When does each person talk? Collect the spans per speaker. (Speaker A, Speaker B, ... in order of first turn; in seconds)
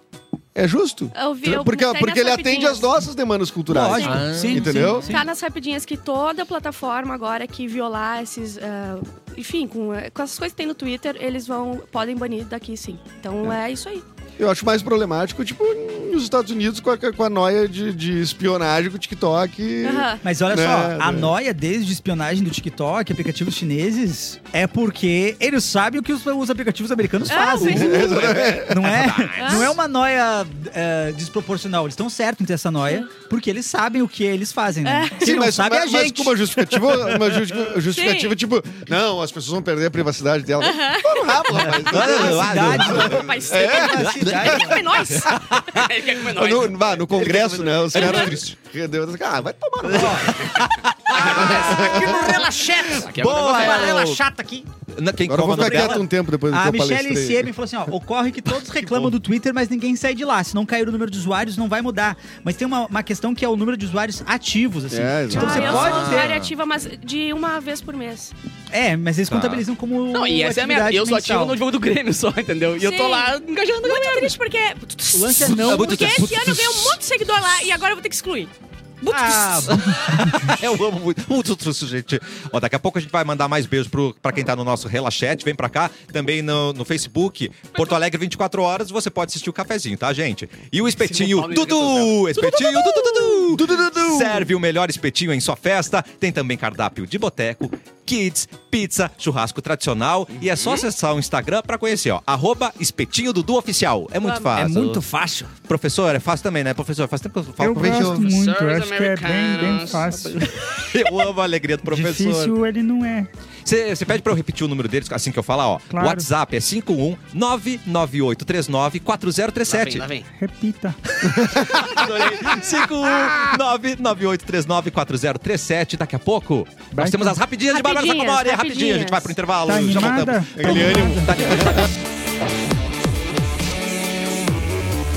Speaker A: 0.5-5.1, 14.4-21.3, 27.5-28.8, 35.2-44.8, 46.2-50.5, 51.2-52.4, 55.3-57.5, 64.9-66.1, 93.5-94.5, 121.3-122.3, 130.5-131.9
Speaker B: 1.1-2.9, 5.0-14.0, 19.8-20.2, 27.3-28.1, 29.4-29.7, 34.8-35.3, 37.9-38.3, 40.6-41.4, 42.0-42.3, 42.9-45.6, 65.3-68.3, 72.8-73.3, 73.8-79.7, 104.2-104.6, 127.7-129.4
Speaker C: 3.7-5.3, 20.2-37.1, 41.9-44.8, 51.1-54.7, 55.5-66.4, 68.7-71.6, 75.1-76.2, 79.1-80.5, 104.5-105.5
Speaker D: 4.0-5.0, 28.2-29.7, 41.7-43.3, 44.0-44.5, 47.3-48.5, 49.9-51.8, 53.0-54.2, 54.9-56.0, 65.5-66.5, 69.3-69.6, 75.6-77.0, 79.9-105.0, 105.6-108.4, 110.8-112.5, 113.6-120.1, 121.2-131.9
Speaker E: 45.7-47.3, 51.2-51.6, 53.0-54.0, 70.1-74.3, 91.0-92.9, 100.4-100.9, 107.9-110.4, 119.7-120.3
Speaker F: 107.6-110.6, 111.8-113.3, 115.9-116.3, 120.3-121.0, 126.9-127.4, 129.6-131.4